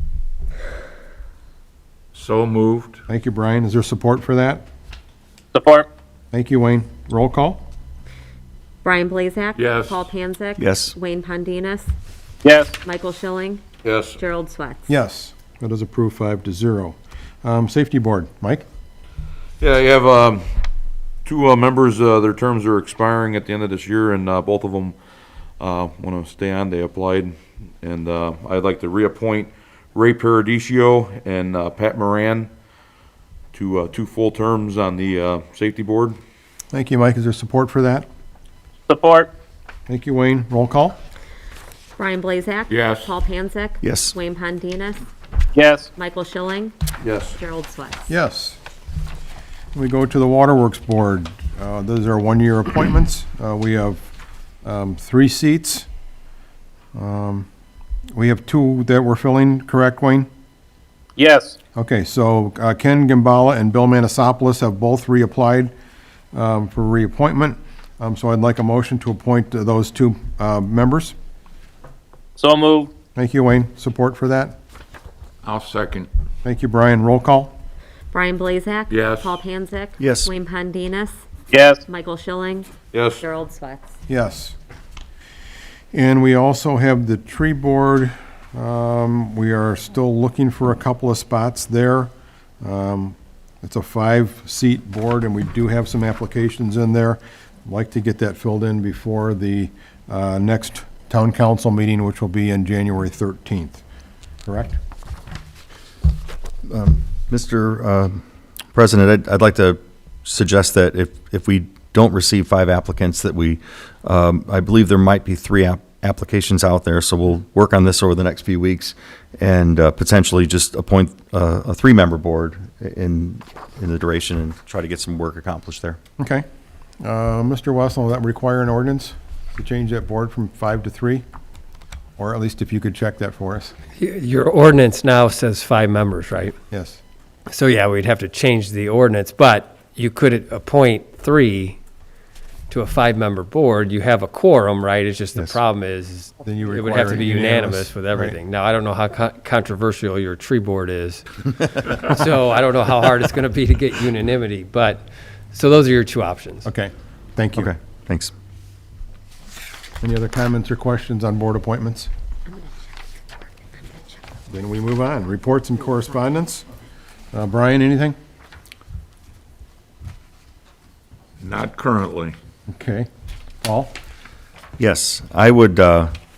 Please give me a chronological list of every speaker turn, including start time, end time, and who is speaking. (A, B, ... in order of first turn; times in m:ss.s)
0:02.1-0:03.0 A
0:03.1-0:04.7 B
0:05.5-0:05.9 C
0:06.3-0:07.6 B
0:08.8-0:11.9 D
0:09.6-0:10.0 A
0:10.6-0:10.9 E
0:12.4-0:12.8 C
0:12.8-0:13.6 D
0:13.8-0:14.2 A
0:14.2-0:14.9 D
0:14.9-0:18.7 B
0:19.6-0:20.5 A
0:21.2-0:25.0 A
0:25.6-0:32.5 A
0:33.5-0:36.2 A
0:36.7-0:38.1 B
0:38.9-0:39.3 C
0:39.9-0:41.0 B
0:42.0-0:45.0 D
0:42.7-0:43.1 A
0:43.8-0:44.1 E
0:45.6-0:45.9 C
0:46.0-0:46.7 D
0:47.0-0:47.4 A
0:47.4-0:48.1 D
0:48.1-0:48.6 B
0:49.7-0:54.1 B
0:54.6-0:55.9 B
0:56.9-0:57.5 B
0:58.1-1:00.3 B
1:01.2-1:01.6 C
1:01.8-1:05.7 B
1:06.3-1:11.2 B
1:12.4-1:12.9 C
1:13.2-1:14.6 B
1:16.4-1:17.5 B
1:18.1-1:21.2 D
1:18.9-1:19.4 A
1:20.0-1:20.3 E
1:21.5-1:21.8 C
1:21.9-1:23.9 D
1:22.9-1:23.2 A
1:24.1-1:24.6 B
1:25.9-1:32.1 B
1:32.6-1:43.8 B
1:44.5-1:44.8 B
1:46.7-1:48.2 E
1:48.8-2:06.0 E
2:06.2-2:06.4 B
2:07.0-2:11.2 B
2:12.2-2:13.7 B
2:14.0-2:16.6 F
2:16.7-2:17.0 B
2:17.5-2:21.8 F
2:22.7-2:36.7 F
2:26.4-2:28.4 B
2:36.6-2:37.7 B
2:37.6-2:38.3 E
2:40.0-2:42.1 B
2:44.5-2:46.7 B
2:47.3-2:48.2 B
2:51.4-2:52.4 A
2:52.7-2:53.1 B
2:53.6-2:53.9 B
2:54.8-2:56.1 E